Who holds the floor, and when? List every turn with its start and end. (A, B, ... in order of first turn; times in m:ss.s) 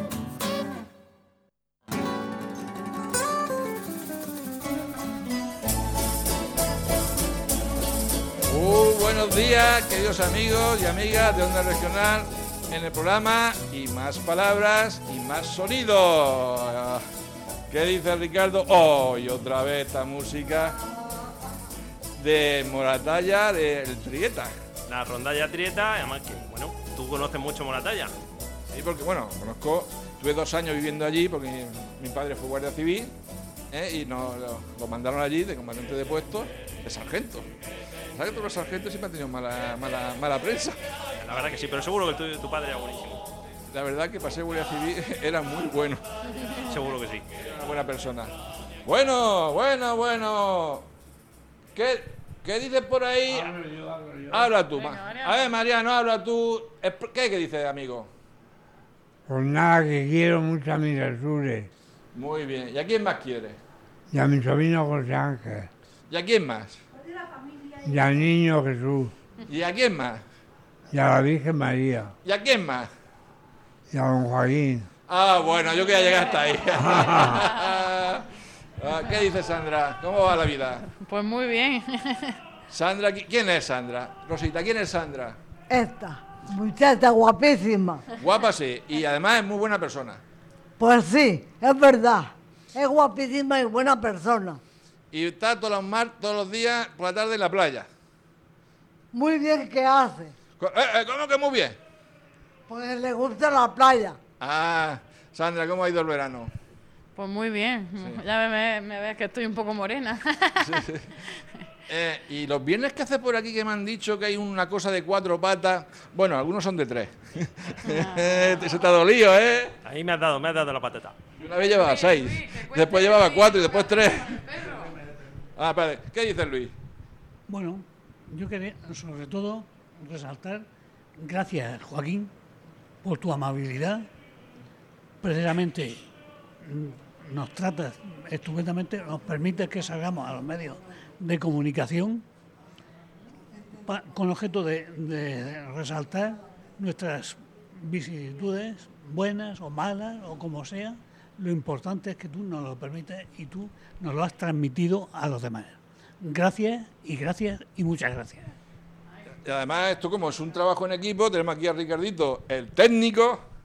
0:08.5-0:17.0 A
0:17.7-0:20.8 A
0:22.2-0:24.5 A
0:24.9-0:28.1 B
0:28.7-0:33.1 A
0:33.7-0:37.5 A
0:38.1-0:40.8 A
0:41.2-0:43.2 B
0:43.7-0:46.0 A
0:46.6-0:47.2 B
0:47.4-0:48.3 A
0:48.8-0:50.9 A
0:51.7-0:53.6 A
0:53.3-0:54.5 C
0:54.3-0:58.1 A
0:54.8-0:55.5 D
0:59.3-1:01.7 C
1:02.1-1:03.6 A
1:04.1-1:05.7 C
1:06.1-1:06.8 A
1:07.8-1:09.1 C
1:09.5-1:10.2 A
1:10.9-1:12.1 C
1:12.2-1:12.9 A
1:13.9-1:14.9 C
1:15.1-1:18.3 A
1:16.8-1:17.4 C
1:18.8-1:20.8 A
1:21.0-1:22.4 D
1:22.7-1:25.4 A
1:25.7-1:28.0 E
1:28.2-1:30.2 A
1:30.8-1:34.6 E
1:35.1-1:37.9 A
1:39.1-1:40.3 E
1:40.6-1:41.8 A
1:42.7-1:44.2 E
1:44.4-1:46.5 A
1:47.2-1:50.7 D
1:50.6-1:51.1 A
1:51.9-1:59.8 A
1:57.9-1:58.6 D
1:59.8-2:01.2 B
2:01.4-2:04.5 A
2:01.6-2:05.0 D
2:05.6-2:06.7 A
2:07.5-2:10.7 F
2:11.2-2:12.3 F
2:13.0-2:14.1 F
2:15.2-2:16.1 F
2:16.6-2:22.2 F
2:23.8-2:38.6 F
2:39.4-2:43.4 A